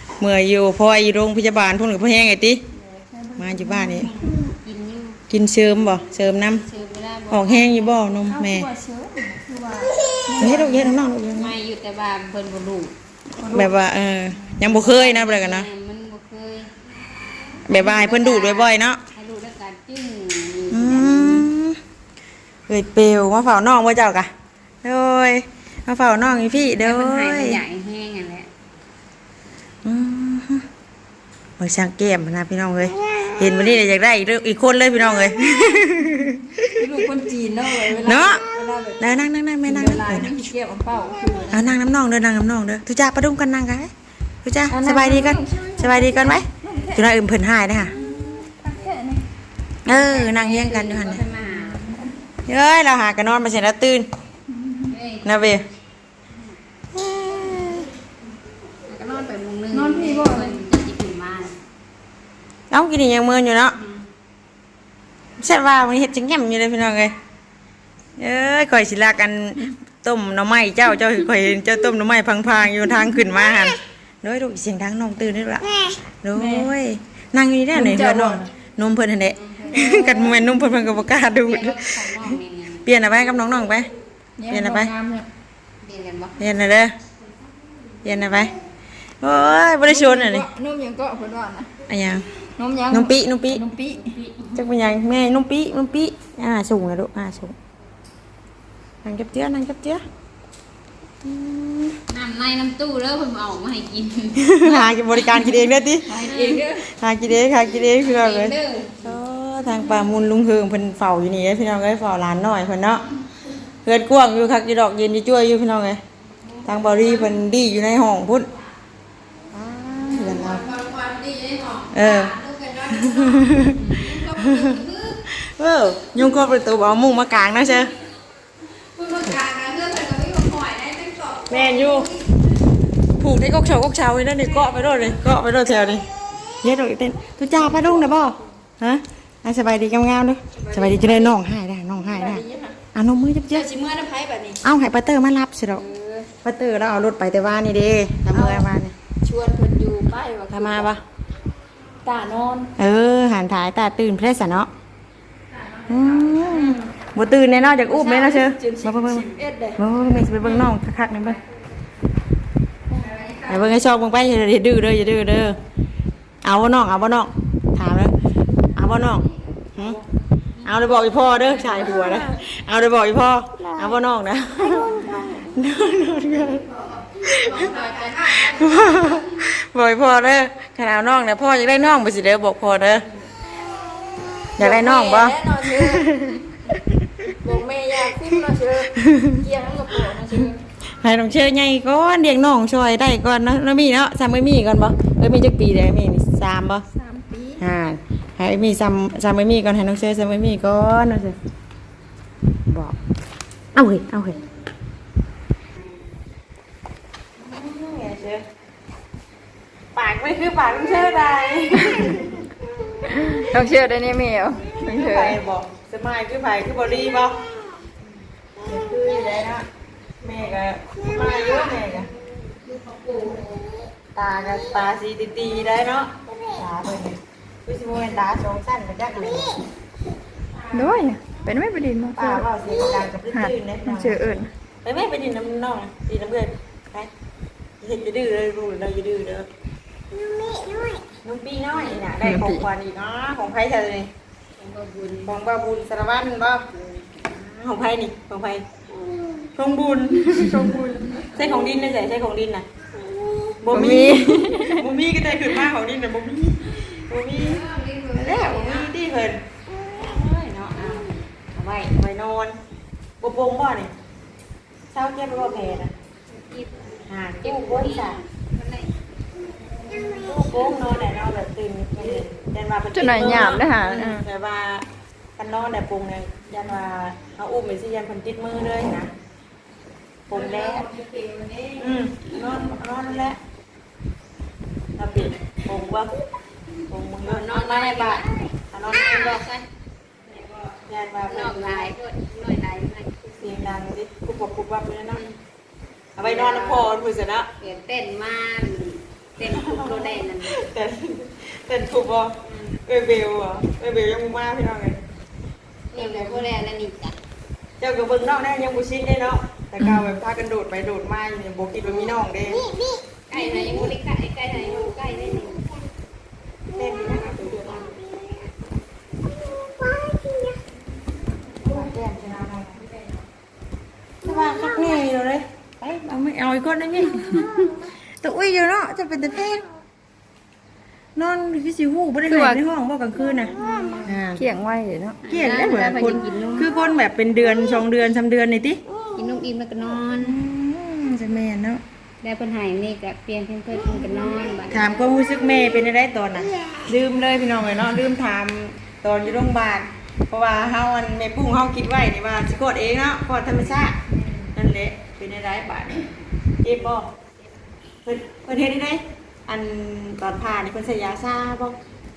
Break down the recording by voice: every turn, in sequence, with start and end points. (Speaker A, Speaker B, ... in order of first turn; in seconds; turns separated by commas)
Speaker A: 0.2-2.6, Speaker B: 2.7-4.4, Speaker A: 3.4-4.1, Speaker C: 4.3-5.2, Speaker A: 5.3-6.6, Speaker C: 6.6-8.0, Speaker A: 7.3-8.7, Speaker B: 8.2-11.0, Speaker A: 10.4-11.5, Speaker C: 11.3-12.9, Speaker B: 13.4-13.7, Speaker A: 13.5-15.7, Speaker C: 14.6-16.7, Speaker A: 17.7-19.0, Speaker C: 17.7-21.5, Speaker A: 20.7-21.8, Speaker A: 22.7-24.3, Speaker A: 24.8-27.6, Speaker C: 26.8-28.5, Speaker A: 29.8-30.6, Speaker A: 31.6-36.9, Speaker B: 36.7-41.6, Speaker A: 37.8-38.4, Speaker A: 39.0-40.3, Speaker A: 41.5-43.9, Speaker A: 44.4-47.9, Speaker B: 44.7-47.0, Speaker C: 48.0-48.4, Speaker B: 48.1-49.2, Speaker A: 49.9-51.2, Speaker C: 49.9-51.9, Speaker B: 51.7-52.0, Speaker A: 52.5-54.1, Speaker C: 54.8-55.5, Speaker A: 55.2-55.6, Speaker A: 56.9-57.9, Speaker C: 58.9-61.5, Speaker B: 59.7-60.6, Speaker A: 62.7-63.8, Speaker C: 63.8-64.1, Speaker A: 65.4-67.1, Speaker A: 68.2-83.9, Speaker B: 76.3-76.7, Speaker B: 77.7-78.5, Speaker C: 79.3-80.3, Speaker C: 81.4-82.9, Speaker B: 84.4-85.3, Speaker A: 84.5-84.9, Speaker C: 85.8-86.3, Speaker A: 86.4-86.9, Speaker A: 88.0-88.5, Speaker A: 89.2-90.5, Speaker B: 89.9-91.7, Speaker A: 91.9-92.2, Speaker B: 92.6-94.1, Speaker A: 92.9-93.6, Speaker C: 93.9-94.7, Speaker A: 94.5-97.5, Speaker A: 99.0-100.0, Speaker A: 101.2-102.0, Speaker C: 102.1-106.9, Speaker A: 104.4-113.0, Speaker C: 108.0-109.1, Speaker A: 113.8-116.0, Speaker A: 116.7-118.5, Speaker A: 119.5-120.7, Speaker B: 120.2-123.4, Speaker A: 121.9-127.9, Speaker B: 124.0-125.1, Speaker B: 129.0-132.1, Speaker A: 131.5-132.1, Speaker A: 133.2-136.1, Speaker A: 136.6-143.7, Speaker B: 140.6-141.2, Speaker B: 142.1-142.8, Speaker B: 143.5-144.6, Speaker A: 144.6-145.8, Speaker B: 145.7-146.3, Speaker A: 146.4-148.9, Speaker B: 148.3-148.7, Speaker B: 149.2-150.8, Speaker A: 150.5-151.0, Speaker B: 152.0-152.7, Speaker A: 152.8-154.7, Speaker B: 155.6-156.8, Speaker A: 155.9-161.4, Speaker B: 157.9-159.8, Speaker B: 162.9-163.6, Speaker A: 163.4-165.6, Speaker A: 166.4-168.1, Speaker A: 168.8-170.0, Speaker C: 170.6-172.3, Speaker A: 170.6-177.8, Speaker C: 175.0-175.4, Speaker B: 176.6-179.2, Speaker A: 178.3-183.0, Speaker A: 184.6-187.2, Speaker B: 184.6-186.1, Speaker B: 187.4-190.6, Speaker A: 188.9-189.4, Speaker A: 189.9-190.3, Speaker A: 190.9-196.8, Speaker B: 196.9-197.6, Speaker A: 197.6-201.3, Speaker A: 202.7-202.9, Speaker A: 203.7-204.4, Speaker A: 207.4-208.4, Speaker A: 209.9-212.4, Speaker B: 213.1-215.3, Speaker A: 214.8-217.4, Speaker A: 218.6-219.7, Speaker A: 220.2-222.1, Speaker C: 222.7-223.5, Speaker A: 224.2-229.6, Speaker B: 230.7-232.4, Speaker A: 232.1-237.1, Speaker B: 233.3-234.5, Speaker A: 237.8-239.5, Speaker C: 240.2-241.0, Speaker A: 241.2-244.1, Speaker B: 242.2-242.7, Speaker C: 244.6-245.4, Speaker A: 245.2-246.6, Speaker C: 246.7-247.3, Speaker A: 247.4-248.6, Speaker A: 249.6-252.6, Speaker A: 253.6-262.6, Speaker B: 253.7-254.8, Speaker C: 257.4-258.9, Speaker A: 263.2-263.9, Speaker A: 264.9-265.9, Speaker C: 266.3-268.9, Speaker A: 267.1-268.2, Speaker C: 269.9-270.3, Speaker A: 270.1-274.9, Speaker B: 272.9-274.2, Speaker A: 275.4-279.1, Speaker A: 280.3-280.9, Speaker B: 280.3-281.8, Speaker A: 281.8-283.4, Speaker A: 285.0-286.1, Speaker A: 286.9-289.4, Speaker C: 287.2-289.6, Speaker A: 290.7-291.9, Speaker C: 291.3-293.7, Speaker A: 293.4-295.2, Speaker A: 296.1-297.5, Speaker C: 296.2-296.9, Speaker C: 297.6-300.5, Speaker A: 299.4-302.3, Speaker C: 302.4-302.8, Speaker A: 302.9-305.0, Speaker C: 305.9-307.1, Speaker A: 305.9-306.5, Speaker A: 307.8-312.7, Speaker C: 313.3-315.6, Speaker A: 313.3-313.7, Speaker A: 316.7-317.9, Speaker A: 321.6-322.7, Speaker A: 324.2-329.6, Speaker A: 331.1-334.4, Speaker B: 332.3-332.6, Speaker C: 333.6-334.1, Speaker B: 334.4-335.2, Speaker C: 335.2-336.7, Speaker A: 335.3-338.8, Speaker C: 339.1-340.4, Speaker A: 340.2-341.8, Speaker C: 342.2-344.8, Speaker A: 344.7-354.0, Speaker A: 354.5-356.0, Speaker A: 356.6-357.1, Speaker A: 358.0-361.7